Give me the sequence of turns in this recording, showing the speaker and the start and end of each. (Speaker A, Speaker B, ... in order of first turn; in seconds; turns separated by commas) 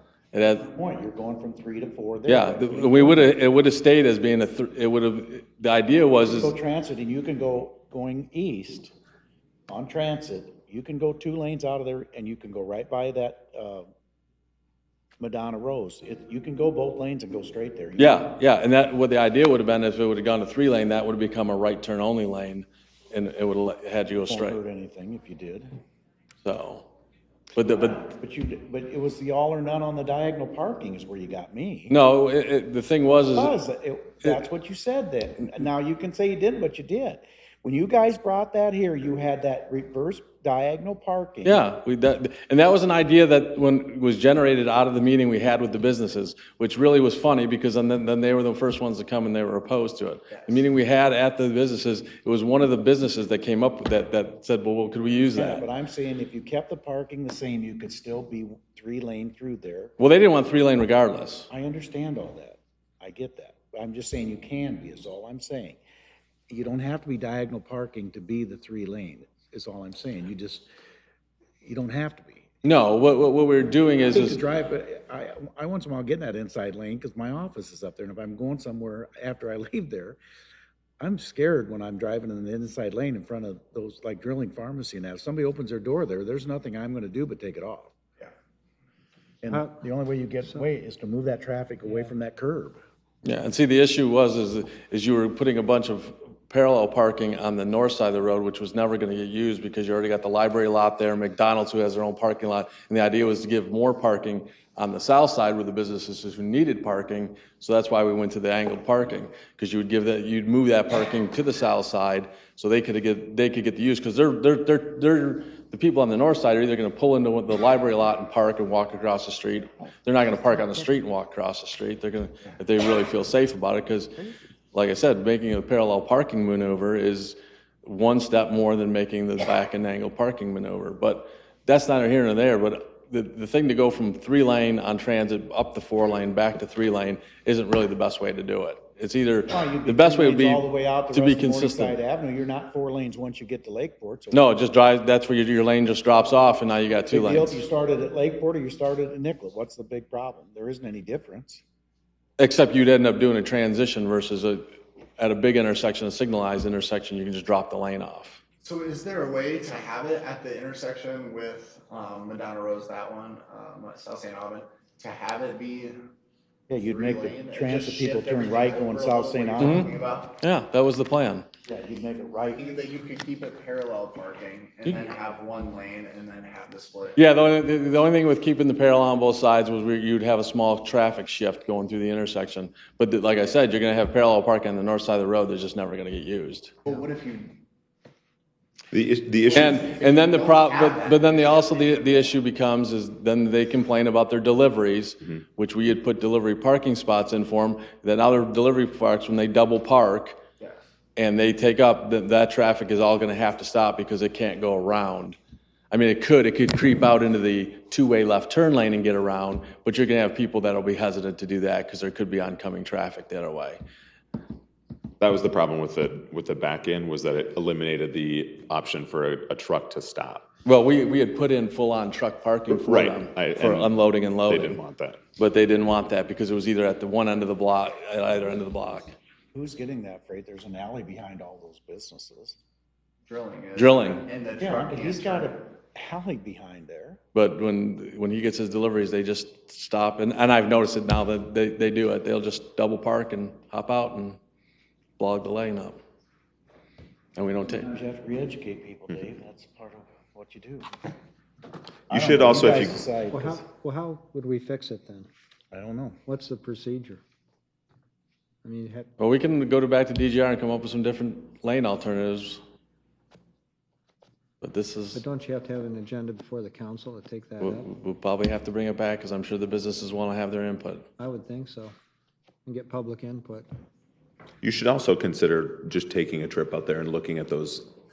Speaker A: 0.3-0.7, Speaker B: 0.7-3.3, Speaker A: 2.3-6.5, Speaker B: 6.3-8.9, Speaker B: 9.7-13.9, Speaker B: 15.2-18.3, Speaker A: 18.0-24.6, Speaker B: 24.3-25.7, Speaker A: 26.4-26.9, Speaker A: 27.5-28.0, Speaker B: 28.0-31.9, Speaker A: 31.9-33.5, Speaker B: 33.3-41.6, Speaker A: 41.4-55.6, Speaker B: 55.3-59.9, Speaker A: 60.0-61.5, Speaker B: 61.5-65.8, Speaker B: 66.5-70.7, Speaker B: 71.6-72.5, Speaker A: 72.6-74.4, Speaker B: 74.0-80.2, Speaker B: 81.0-87.9, Speaker B: 89.4-92.8, Speaker A: 93.2-124.2, Speaker A: 124.7-141.9, Speaker B: 139.5-144.5, Speaker A: 144.3-147.6, Speaker B: 147.1-151.6, Speaker A: 152.4-154.7, Speaker A: 155.2-158.4, Speaker C: 158.6-166.0, Speaker B: 166.7-169.9, Speaker C: 166.8-170.3, Speaker A: 169.6-171.4, Speaker B: 171.7-172.7, Speaker C: 172.6-177.2, Speaker A: 177.2-186.7, Speaker C: 186.8-187.6, Speaker D: 188.9-189.8, Speaker C: 189.4-192.3, Speaker A: 189.5-200.4, Speaker A: 201.2-205.4, Speaker A: 205.9-213.8, Speaker D: 215.2-220.4, Speaker A: 220.7-224.8, Speaker D: 222.7-225.2, Speaker A: 225.4-229.1, Speaker B: 229.5-232.6, Speaker C: 233.3-235.6, Speaker A: 233.8-234.2, Speaker B: 234.6-237.2, Speaker A: 237.3-244.4, Speaker A: 245.2-246.0, Speaker A: 247.3-247.9, Speaker B: 247.7-250.9, Speaker D: 252.1-253.0, Speaker B: 252.1-253.6, Speaker E: 253.3-255.3, Speaker B: 255.7-256.2, Speaker E: 256.2-257.2, Speaker E: 258.6-259.1, Speaker A: 259.2-262.6, Speaker A: 264.6-265.2, Speaker E: 265.1-267.9, Speaker A: 267.6-271.1, Speaker E: 271.2-271.9, Speaker E: 272.6-273.7, Speaker D: 274.6-277.9